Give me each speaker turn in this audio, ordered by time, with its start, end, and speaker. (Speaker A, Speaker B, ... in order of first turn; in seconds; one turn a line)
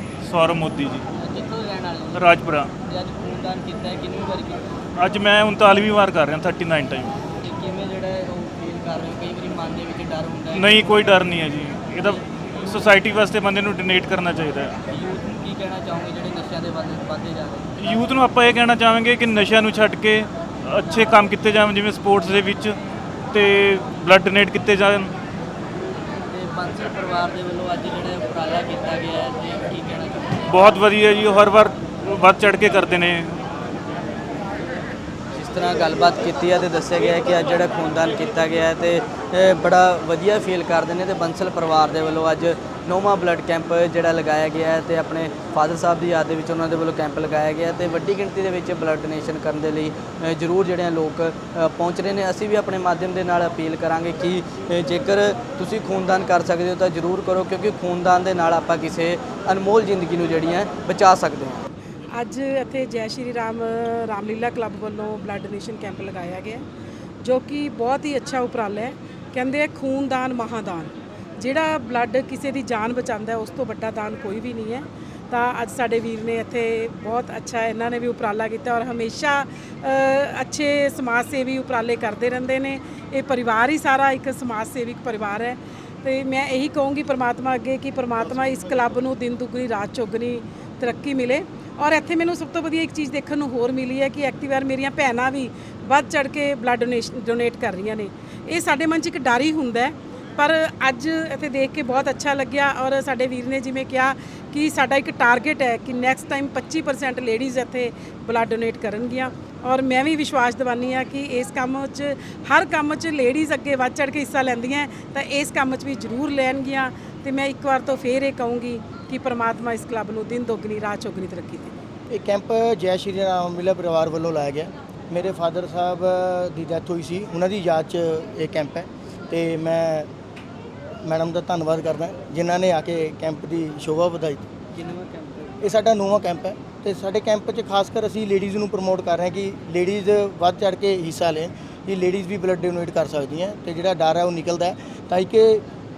Speaker A: 0.2-1.0
Speaker B: 1.1-4.6
Speaker A: 2.1-2.7
Speaker A: 5.0-7.1
Speaker B: 7.3-11.1
Speaker A: 10.5-14.8
Speaker B: 14.9-17.7
Speaker A: 17.8-22.8
Speaker A: 23.3-25.1
Speaker B: 26.3-30.4
Speaker A: 30.5-33.4
Speaker B: 35.3-61.6
Speaker C: 62.1-66.6
Speaker C: 67.2-121.7
Speaker D: 122.1-130.1
Speaker D: 131.0-134.5
Speaker B: 134.7-135.5
Speaker D: 135.6-145.6